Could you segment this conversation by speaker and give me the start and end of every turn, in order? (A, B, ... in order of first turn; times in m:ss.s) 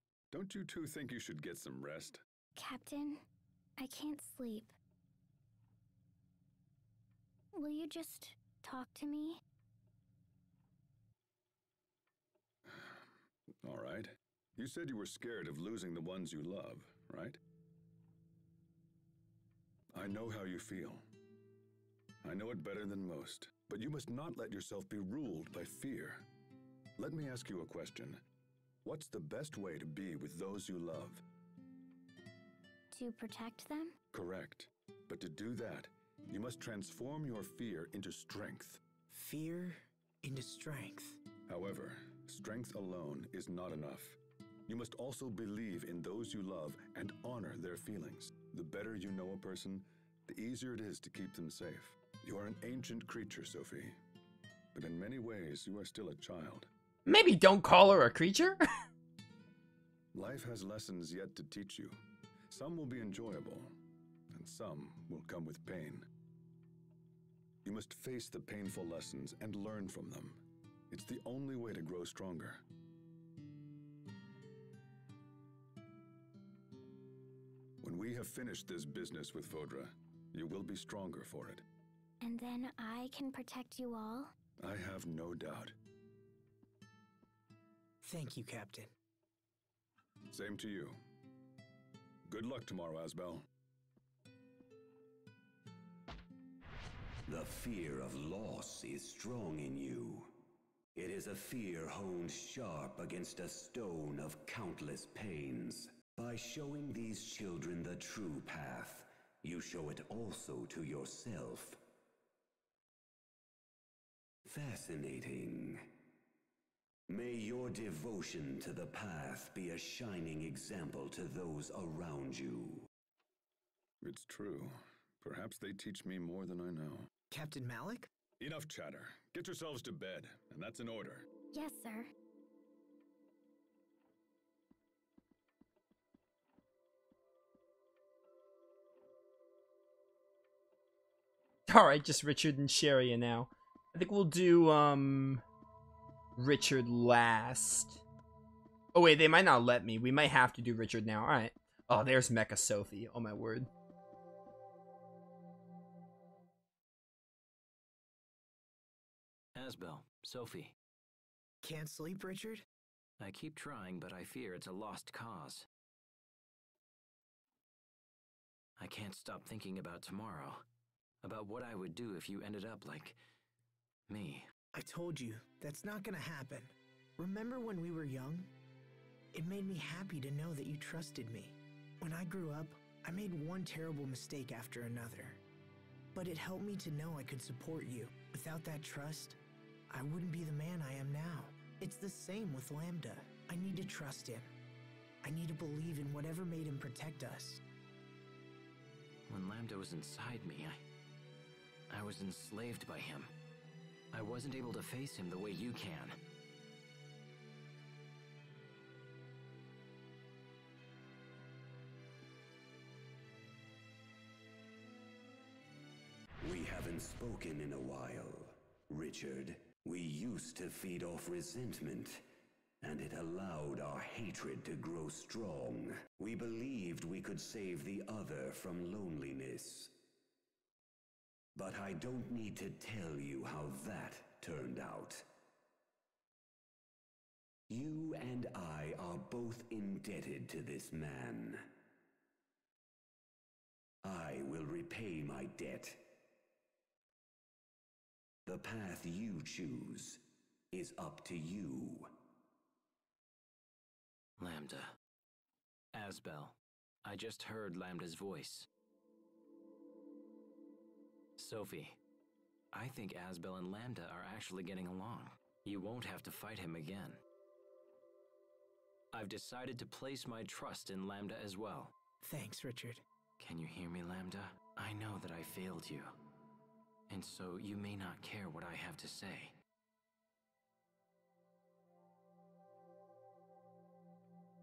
0:00.3-0:02.2 A
0:02.6-0:03.2 B
0:03.8-0:04.7 B
0:07.5-0:09.4 B
0:12.7-0:13.0 A
0:13.6-0:17.4 A
0:19.9-0:21.0 A
0:22.2-0:26.2 A
0:27.0-0:28.2 A
0:28.8-0:31.2 A
0:32.9-0:33.9 B
0:34.1-0:38.8 A
0:39.1-0:41.2 C
0:41.5-0:54.0 A
0:54.7-0:56.7 A
0:57.0-0:58.6 D
1:00.1-1:02.0 A
1:02.5-1:03.7 A
1:04.3-1:06.1 A
1:07.6-1:10.4 A
1:10.9-1:12.6 A
1:17.8-1:21.6 A
1:22.2-1:24.3 B
1:24.6-1:25.8 A
1:28.0-1:28.9 C
1:30.3-1:31.0 A
1:32.3-1:33.4 A
1:37.3-1:40.3 E
1:40.9-1:51.8 E
1:54.4-1:55.8 E
1:57.1-2:02.9 E
2:04.0-2:07.1 A
2:07.3-2:08.1 C
2:08.4-2:11.3 A
2:11.5-2:12.1 B
2:21.7-2:25.4 D
2:26.4-2:28.0 D
2:28.9-2:33.7 D
2:39.5-2:40.7 F
2:41.6-2:42.6 C
2:43.2-2:45.7 F
2:48.8-2:50.6 F
2:51.2-2:53.2 F
2:54.1-2:54.5 F
2:54.7-2:58.5 C
2:59.3-3:05.4 C
3:06.1-3:09.4 C
3:09.9-3:14.5 C
3:15.2-3:17.6 C
3:19.3-3:20.8 F
3:21.9-3:23.3 F
3:24.1-3:26.2 F
3:36.4-3:42.2 E
3:42.8-3:49.9 E
3:51.6-3:55.2 E
3:57.7-4:01.6 E
4:04.0-4:06.0 E
4:08.4-4:10.2 E
4:10.7-4:12.1 E
4:14.4-4:15.0 F
4:15.9-4:18.7 F
4:21.4-4:22.0 F
4:22.7-4:27.2 F
4:29.1-4:31.9 F
4:32.2-4:33.0 C
4:33.4-4:36.1 F
4:37.1-4:39.5 F